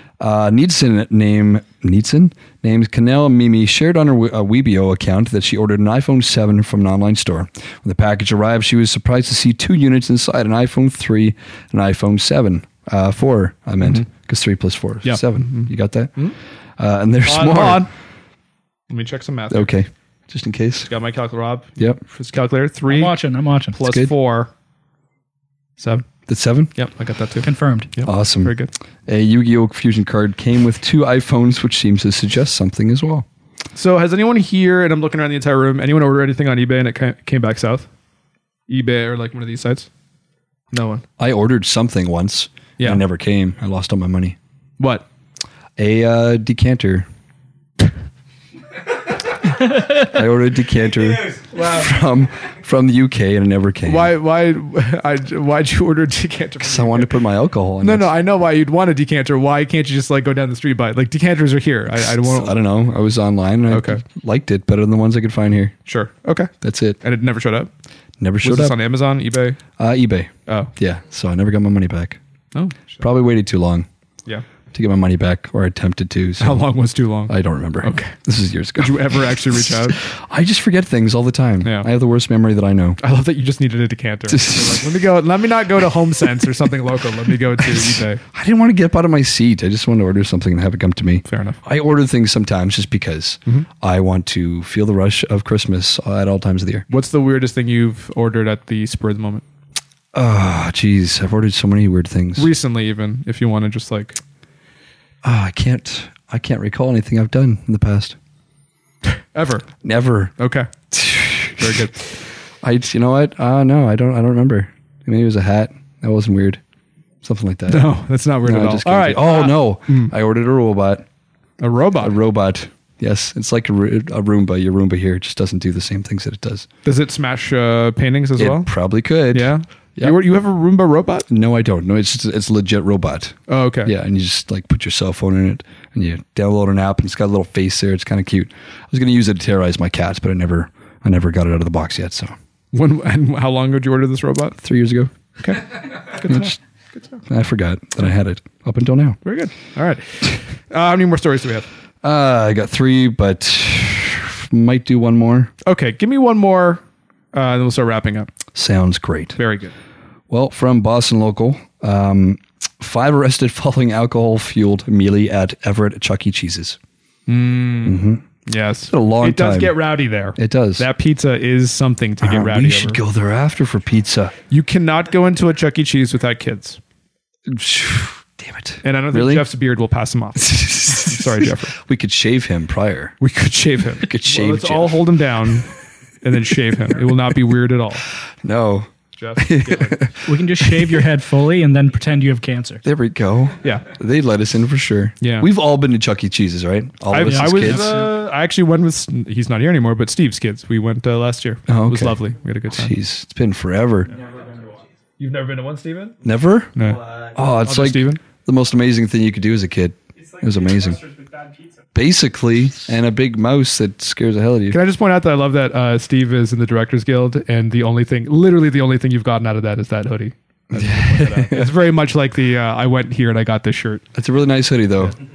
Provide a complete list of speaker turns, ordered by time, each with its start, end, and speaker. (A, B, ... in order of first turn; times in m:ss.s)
0:00.2-0:16.2 A
0:13.8-0:14.1 B
0:15.0-0:16.4 B
0:16.8-0:17.9 A
0:17.2-0:17.9 B
0:18.9-0:19.7 B
0:19.5-0:20.9 A
0:20.9-0:23.1 B
0:22.9-0:23.8 C
0:23.7-0:24.5 B
0:23.8-0:24.1 A
0:25.8-0:26.1 B
0:26.3-0:26.7 A
0:26.8-0:28.7 B
0:27.4-0:27.9 C
0:28.0-0:33.2 A
0:33.8-0:37.9 B
0:38.7-0:39.9 B
0:40.7-0:41.0 B
0:41.2-0:44.4 A
0:44.8-0:45.1 B
0:45.8-0:47.1 A
0:49.7-0:54.1 A
0:51.6-0:51.8 B
0:53.8-0:57.1 B
0:56.6-0:58.1 A
0:57.8-1:02.6 B
1:02.0-1:05.8 A
1:03.7-1:04.0 B
1:05.9-1:07.7 B
1:06.6-1:07.0 A
1:08.2-1:08.8 A
1:08.4-1:09.6 B
1:09.8-1:12.2 A
1:12.5-1:13.0 B
1:13.0-1:13.9 A
1:14.7-1:16.6 A
1:16.4-1:18.2 B
1:17.3-1:23.0 A
1:18.8-1:20.0 B
1:21.6-1:21.9 B
1:23.0-1:28.2 B
1:24.3-1:24.9 A
1:27.8-1:36.9 A
1:31.3-1:31.6 B
1:36.9-1:39.4 B
1:40.1-1:42.5 A
1:42.4-1:44.2 B
1:45.2-1:48.2 A
1:49.1-1:49.7 B
1:49.8-1:50.3 A
1:50.4-1:50.7 B
1:50.9-1:51.9 A
1:51.6-1:52.1 B
1:52.6-1:56.6 A
1:57.2-1:57.9 A
1:57.7-2:00.1 B
1:58.4-2:01.0 A
2:01.6-2:02.2 B
2:02.0-2:06.7 A
2:06.8-2:08.7 B
2:08.4-2:10.2 A
2:09.3-2:11.3 B
2:11.3-2:22.4 A
2:13.5-2:13.9 B
2:22.7-2:24.6 B
2:24.6-2:25.1 A
2:25.4-2:27.2 B
2:26.2-2:26.6 A
2:27.3-2:29.2 A
2:29.2-2:31.7 B
2:32.0-2:35.5 A
2:35.6-2:36.8 B
2:37.3-2:38.3 B
2:38.6-2:39.4 A
2:39.4-2:39.7 B
2:40.3-2:46.8 A
2:47.3-2:53.0 B
2:47.8-2:48.2 A
2:48.9-2:49.8 A
2:50.4-2:50.9 A
2:52.2-2:54.3 A
2:54.5-2:56.8 B
2:57.5-2:59.5 A
2:58.8-3:01.8 B
3:00.4-3:03.2 A
3:03.2-3:05.7 B
3:04.0-3:05.1 A
3:06.2-3:08.1 B
3:08.4-3:10.9 A
3:09.2-3:10.1 B
3:10.2-3:12.8 C
3:12.8-3:18.0 A
3:15.2-3:15.5 B
3:17.1-3:23.0 B
3:17.5-3:18.0 C
3:21.7-3:24.1 A
3:25.2-3:26.2 B
3:26.2-3:31.1 A
3:26.8-3:28.2 B
3:31.9-3:34.8 A
3:34.7-3:44.0 B
3:40.7-3:41.7 A
3:44.2-3:45.2 A